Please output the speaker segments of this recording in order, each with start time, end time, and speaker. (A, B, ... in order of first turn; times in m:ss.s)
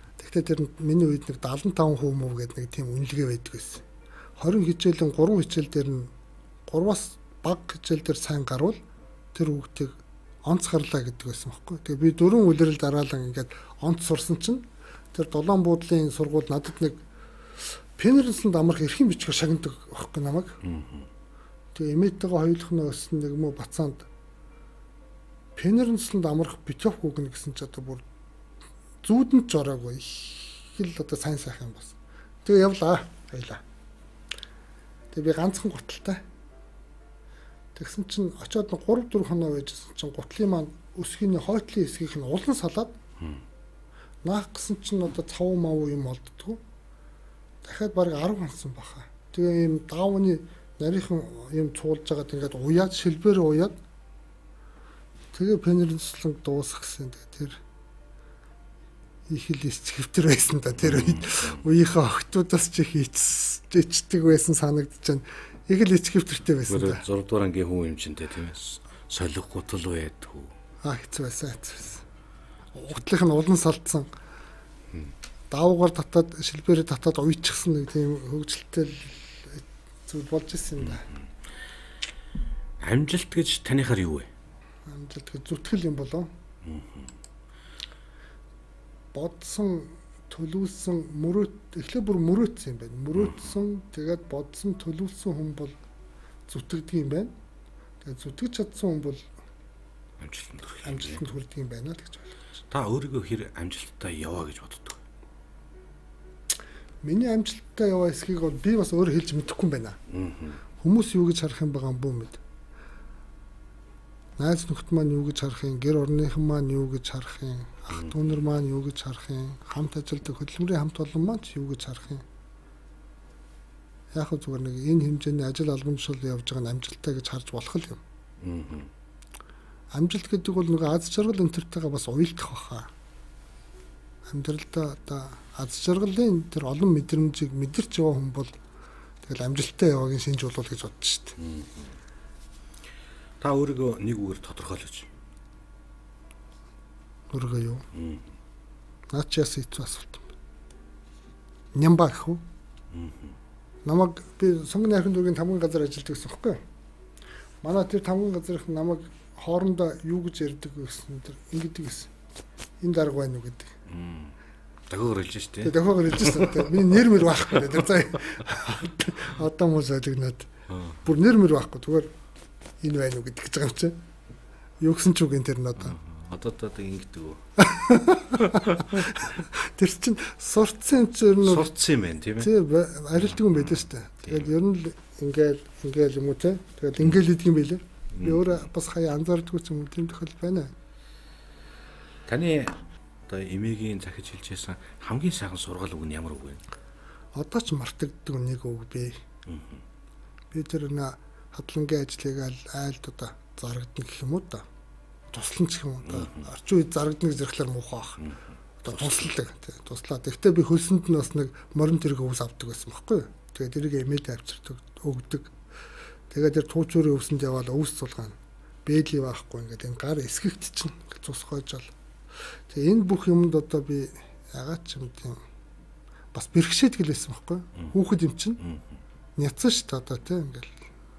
0:00.2-0:03.8 A
0:04.4-0:06.1 A
0:06.7-0:08.8 A
0:09.3-0:17.0 A
0:17.6-0:20.6 A
0:20.6-0:21.1 B
0:21.7-0:24.1 A
0:25.6-0:28.0 A
0:29.0-0:33.6 A
0:35.1-0:36.2 A
0:37.7-0:42.9 A
0:44.2-0:46.6 A
0:47.6-0:53.8 A
0:55.3-0:57.6 A
0:59.3-1:07.0 A
1:00.8-1:01.6 B
1:06.7-1:10.5 B
1:10.8-1:12.0 A
1:12.7-1:14.1 A
1:15.5-1:21.0 A
1:22.8-1:24.3 B
1:24.8-1:26.3 A
1:26.6-1:27.1 B
1:29.1-1:35.7 A
1:33.2-1:33.5 B
1:36.5-1:37.3 A
1:38.0-1:39.2 A
1:40.2-1:41.2 B
1:40.8-1:42.4 A
1:42.7-1:45.0 B
1:47.0-1:50.0 A
1:50.1-1:50.6 B
1:50.8-1:52.4 A
1:54.4-2:02.2 A
2:04.1-2:08.0 A
2:08.4-2:08.9 B
2:09.9-2:12.9 A
2:14.2-2:18.5 A
2:19.2-2:21.4 A
2:21.4-2:21.9 B
2:23.4-2:25.1 B
2:27.3-2:27.8 A
2:27.9-2:28.3 B
2:29.1-2:30.3 A
2:31.7-2:32.4 A
2:32.9-2:33.4 B
2:33.8-2:36.6 A
2:37.6-2:42.1 A
2:42.8-2:43.7 A
2:43.9-2:44.3 B
2:44.9-2:46.9 B
2:45.6-2:52.1 A
2:50.7-2:51.0 B
2:52.8-2:54.0 A
2:54.8-2:56.0 A
2:55.8-2:57.4 B
2:57.6-3:01.7 A
2:58.4-2:59.0 B
3:01.4-3:02.5 B
3:02.4-3:10.7 A
3:03.3-3:04.5 B
3:08.2-3:08.5 B
3:12.3-3:16.6 B
3:17.3-3:19.2 A
3:19.5-3:19.8 B
3:20.5-3:24.6 A
3:25.3-3:35.5 A
3:26.1-3:26.4 B
3:36.3-3:41.9 A
3:42.7-3:45.4 A
3:46.3-3:48.6 A
3:48.6-3:48.9 B
3:49.4-3:50.8 A